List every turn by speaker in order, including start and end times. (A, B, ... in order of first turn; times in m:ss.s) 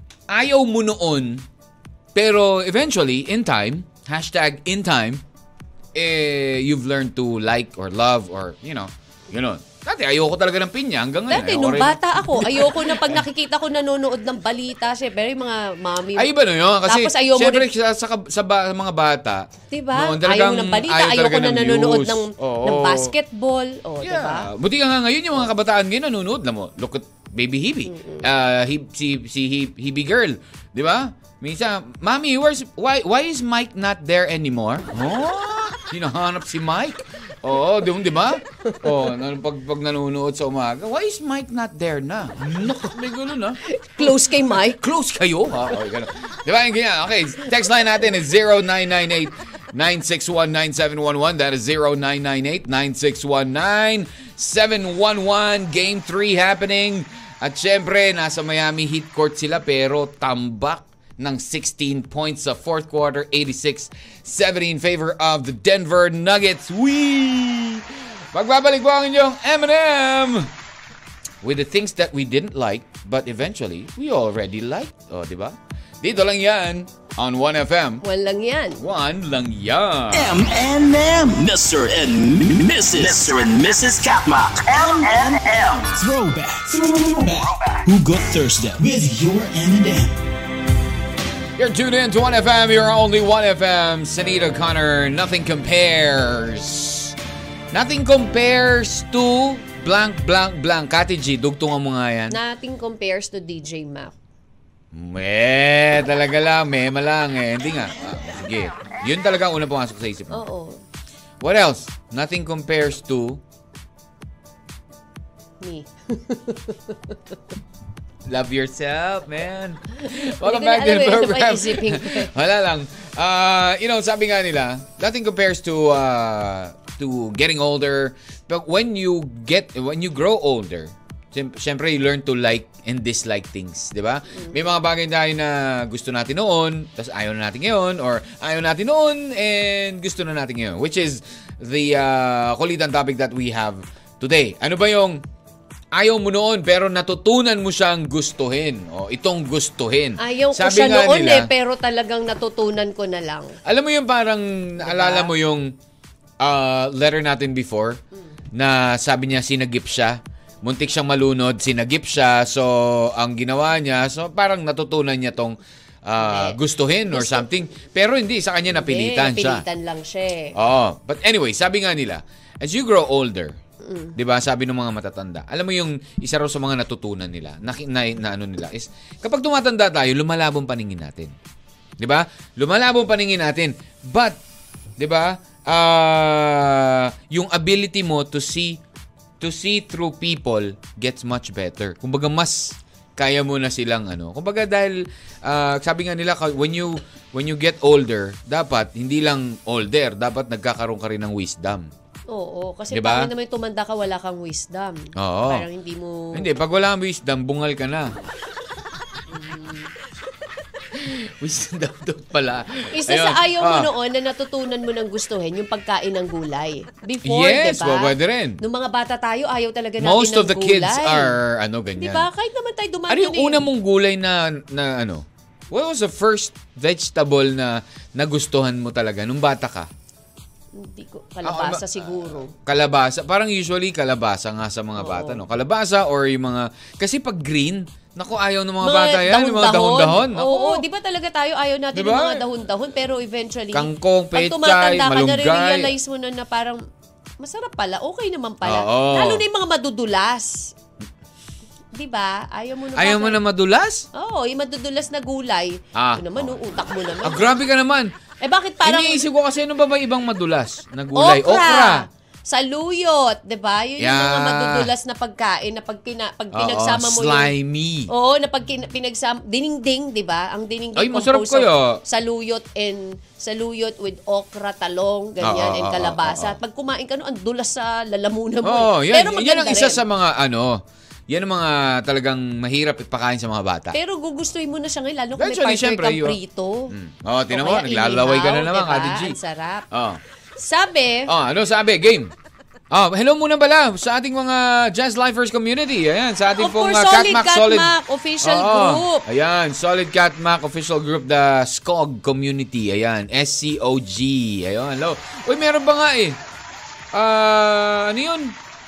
0:00.3-0:01.4 A
0:02.1-0:05.2 A
0:05.9-0:13.2 A
0:11.3-0:16.3 B
0:16.2-0:23.1 A
0:16.8-0:17.6 B
0:19.7-0:24.5 B
0:24.0-1:10.5 A
0:27.8-0:28.3 B
0:43.6-0:44.8 B
1:11.4-1:18.0 A
1:18.0-1:18.8 B
1:18.8-1:20.4 A
1:20.1-1:30.1 C
1:31.6-1:37.1 A
1:37.7-1:42.4 A
1:42.3-1:44.1 B
1:44.9-1:50.4 A
1:50.3-1:50.8 B
1:51.4-1:53.4 A
1:55.6-1:57.4 B
1:58.3-2:25.2 A
2:00.0-2:02.3 B
2:25.9-2:31.5 A
2:30.2-2:33.5 B
2:33.6-2:35.7 A
2:34.8-2:35.3 B
2:36.4-2:38.0 A
2:38.5-2:49.6 A
2:46.2-2:46.6 B
2:47.1-2:47.5 B
2:48.7-2:50.5 B
2:50.5-2:53.6 A
2:53.8-2:54.1 B
2:54.1-3:01.3 A
3:02.0-3:04.4 A
3:05.0-3:08.8 A
3:09.4-3:21.9 A
3:22.3-3:26.4 B
3:22.9-3:23.3 A
3:25.2-3:25.6 A
3:26.3-3:28.1 A
3:29.3-3:29.9 B
3:30.9-3:33.9 A
3:32.9-3:41.4 B
3:37.2-3:38.6 A
3:40.0-3:42.3 A
3:42.0-3:43.6 B
3:43.1-3:49.9 A
3:50.8-3:52.5 B
3:51.4-4:00.8 A
3:55.0-3:55.4 B
3:58.8-4:06.8 B
4:01.9-4:02.4 A
4:03.7-4:05.9 A
4:07.4-4:10.7 B
4:08.6-4:09.4 A
4:11.9-4:13.4 B
4:13.0-4:14.1 A
4:14.1-4:17.5 B
4:15.9-4:16.6 A
4:17.2-4:18.1 A
4:18.4-4:19.2 B
4:18.8-4:22.0 A
4:21.1-4:27.5 B
4:24.0-4:24.9 A
4:26.5-4:28.1 A
4:28.1-4:40.0 B
4:31.0-4:32.0 A
4:35.4-4:36.6 A
4:38.6-4:44.0 A
4:43.9-4:46.9 B
4:45.4-4:46.4 A
4:46.9-4:49.4 A
4:47.5-4:49.9 B
4:49.9-4:50.2 A
4:50.6-4:51.3 B
4:51.2-4:52.3 A
4:52.9-5:06.4 A
4:56.5-4:59.2 B
5:07.1-5:08.6 A